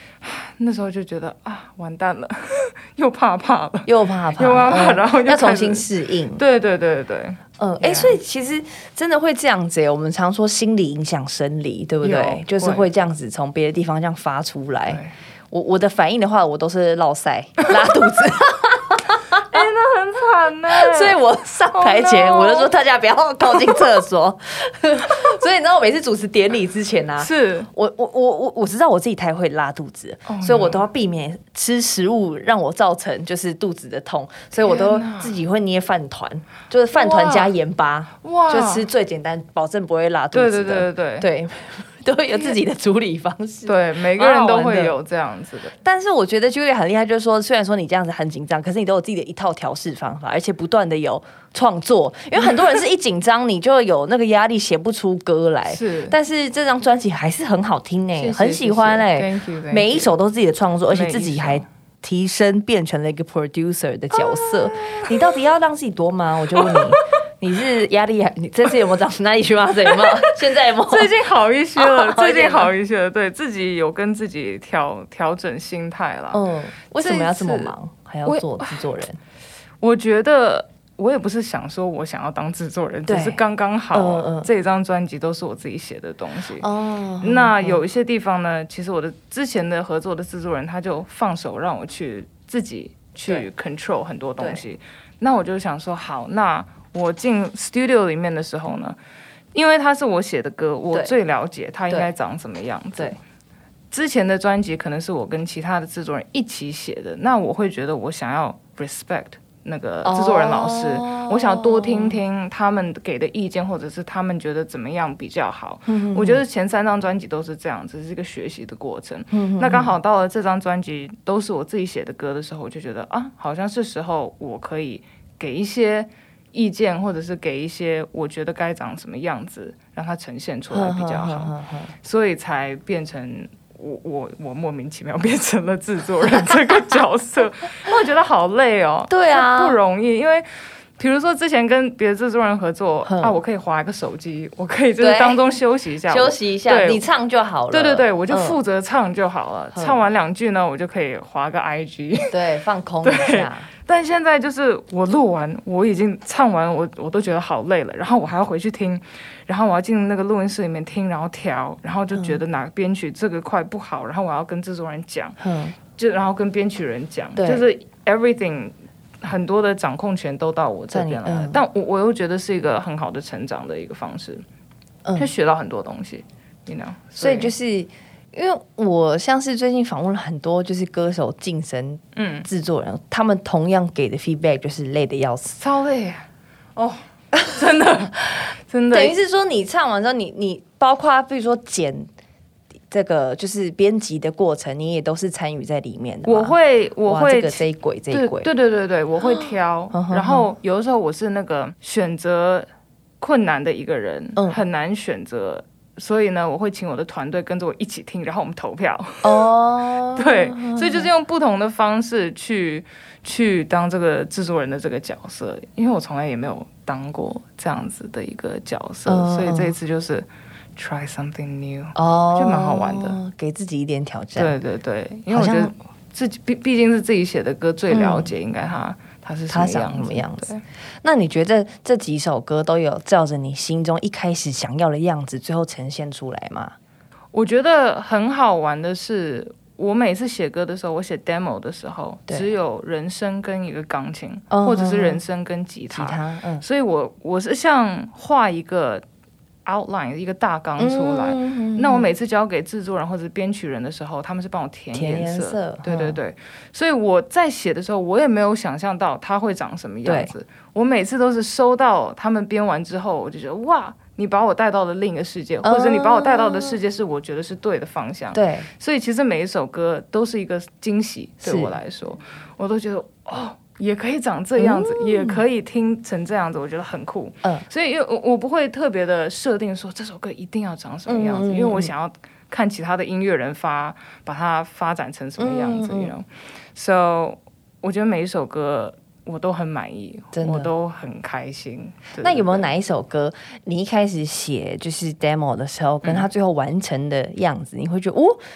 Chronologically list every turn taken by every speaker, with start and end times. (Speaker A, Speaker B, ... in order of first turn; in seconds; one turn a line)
Speaker A: 0.2-8.2
Speaker B: 3.9-6.4
Speaker B: 7.6-19.6
Speaker A: 12.0-12.9
Speaker A: 14.9-15.2
Speaker A: 19.4-22.7
Speaker B: 20.7-45.0
Speaker A: 27.2-27.7
Speaker A: 30.3-30.9
Speaker A: 34.5-35.4
Speaker A: 36.9-37.5
Speaker A: 38.2-38.9
Speaker A: 40.3-41.3
Speaker A: 43.6-45.8
Speaker B: 45.8-71.2
Speaker A: 55.7-56.2
Speaker A: 58.1-60.1
Speaker A: 60.9-61.7
Speaker A: 64.1-65.4
Speaker A: 66.5-67.0
Speaker A: 69.8-79.0
Speaker B: 71.8-72.7
Speaker B: 76.3-79.2
Speaker A: 79.8-86.7
Speaker B: 83.1-83.4
Speaker B: 83.9-84.5
Speaker B: 86.6-87.8
Speaker A: 87.2-99.0
Speaker A: 99.5-103.2
Speaker A: 103.9-147.1
Speaker B: 110.0-112.2
Speaker B: 115.9-116.4
Speaker B: 119.3-120.0
Speaker B: 130.7-131.9
Speaker B: 139.1-139.8
Speaker B: 143.0-143.4
Speaker B: 145.0-145.5
Speaker B: 146.1-148.6
Speaker A: 147.7-152.3
Speaker B: 149.7-150.0
Speaker B: 152.3-153.7
Speaker A: 153.0-165.4
Speaker B: 165.4-165.8
Speaker A: 165.9-174.4
Speaker B: 167.4-167.7
Speaker B: 170.9-171.6
Speaker B: 175.1-175.3
Speaker A: 175.2-177.5
Speaker B: 177.2-185.6
Speaker A: 182.2-182.5
Speaker A: 185.6-189.2
Speaker B: 188.9-192.1
Speaker B: 192.9-198.5
Speaker A: 196.2-202.7
Speaker B: 199.2-200.5
Speaker A: 203.2-209.5
Speaker B: 204.4-204.6
Speaker B: 209.2-211.1
Speaker A: 210.2-223.2
Speaker B: 219.1-219.8
Speaker B: 222.0-224.6
Speaker A: 224.4-230.6
Speaker B: 225.3-225.7
Speaker B: 227.9-228.3
Speaker B: 229.5-230.5
Speaker B: 231.0-236.8
Speaker A: 237.3-249.0
Speaker B: 244.5-245.2
Speaker B: 245.9-246.7
Speaker A: 249.7-292.7
Speaker B: 250.8-252.1
Speaker B: 254.9-256.2
Speaker B: 260.0-260.3
Speaker B: 265.6-266.8
Speaker B: 268.3-268.7
Speaker B: 271.4-271.8
Speaker B: 274.6-275.5
Speaker B: 281.1-281.9
Speaker B: 285.4-286.1
Speaker B: 290.3-290.7
Speaker B: 292.2-298.4
Speaker A: 296.0-296.3